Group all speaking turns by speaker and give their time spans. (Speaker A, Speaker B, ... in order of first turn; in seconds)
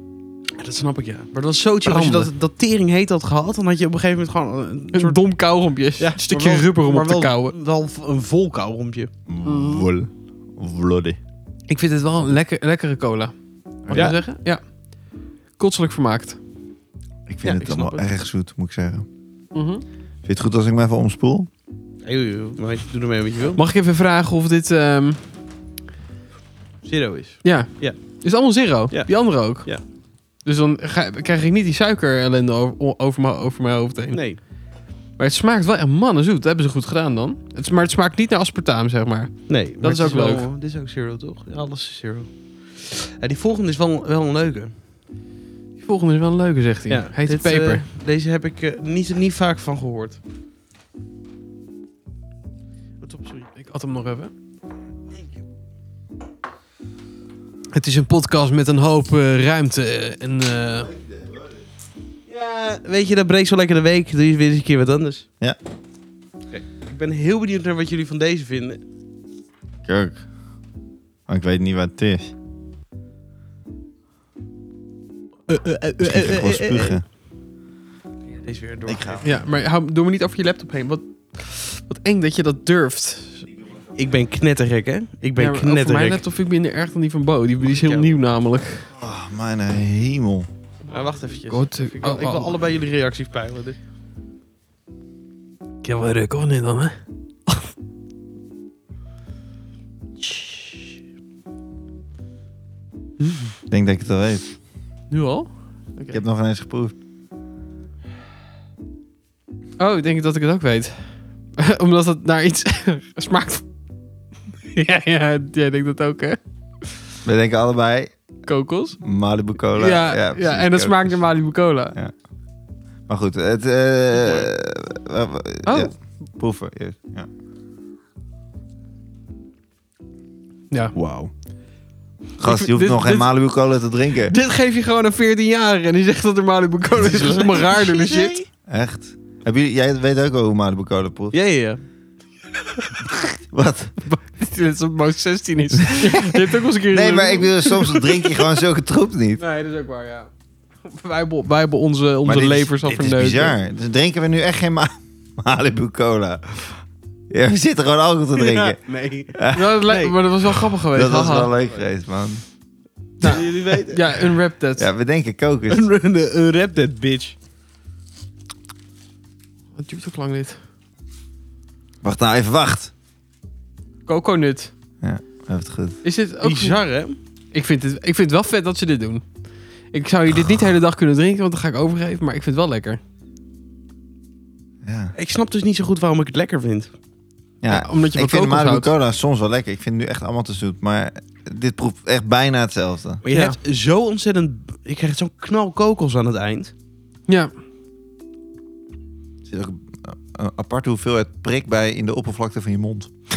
Speaker A: 0.6-5.2, 6.0-9.1, 13.9-14.2, 17.4-18.1, 22.0-23.6, 26.8-28.0, 28.9-29.8, 34.1-34.4, 39.5-44.8, 46.9-50.2, 53.0-53.5, 62.3-65.2, 66.5-68.8, 75.5-77.0, 78.4-79.3, 84.0-86.2, 87.6-88.1, 90.9-93.8, 124.2-124.5, 130.9-131.3, 136.9-138.4, 141.3-141.8, 158.3-160.2, 163.2-164.2, 165.7-167.3, 176.4-177.2, 185.2-186.9, 193.2-196.7
Speaker B: 1.9-2.3, 4.9-7.5, 9.4-9.9, 11.7-13.3, 13.8-14.6, 15.6-16.4, 19.5-19.8, 23.6-25.2, 27.4-29.8, 30.4-34.2, 35.2-40.5, 45.8-47.8, 53.5-54.3, 57.7-60.9, 79.2-83.5, 85.4-88.9, 91.4-92.5, 95.8-97.0, 100.2-100.8, 105.1-106.2, 109.8-113.6, 114.7-116.4, 118.5-119.0, 119.7-122.0, 125.7-126.0, 132.4-133.3, 134.3-138.4, 144.0-148.3, 149.4-150.3, 150.8-153.5, 159.5-161.5, 163.2-164.9, 169.8-170.6, 174.1-174.7, 176.0-176.8, 177.5-179.2, 179.9-183.0, 187.7-188.9, 193.3-193.6
Speaker C: 9.3-11.2, 13.8-14.2, 17.3-19.1, 20.2-21.5, 60.8-61.6, 69.8-70.2, 71.3-72.3, 76.0-77.0, 78.9-79.4, 88.9-90.5, 103.7-104.5, 106.1-106.9, 117.2-118.1, 119.0-121.2, 123.1-127.3, 132.4-134.3, 138.7-141.3, 143.5-144.0, 145.9-149.4, 152.2-158.8, 159.3-159.7, 160.9-162.4, 164.8-165.8, 172.0-172.9, 175.0-176.0, 184.8-185.1, 187.6-193.2, 199.4-203.1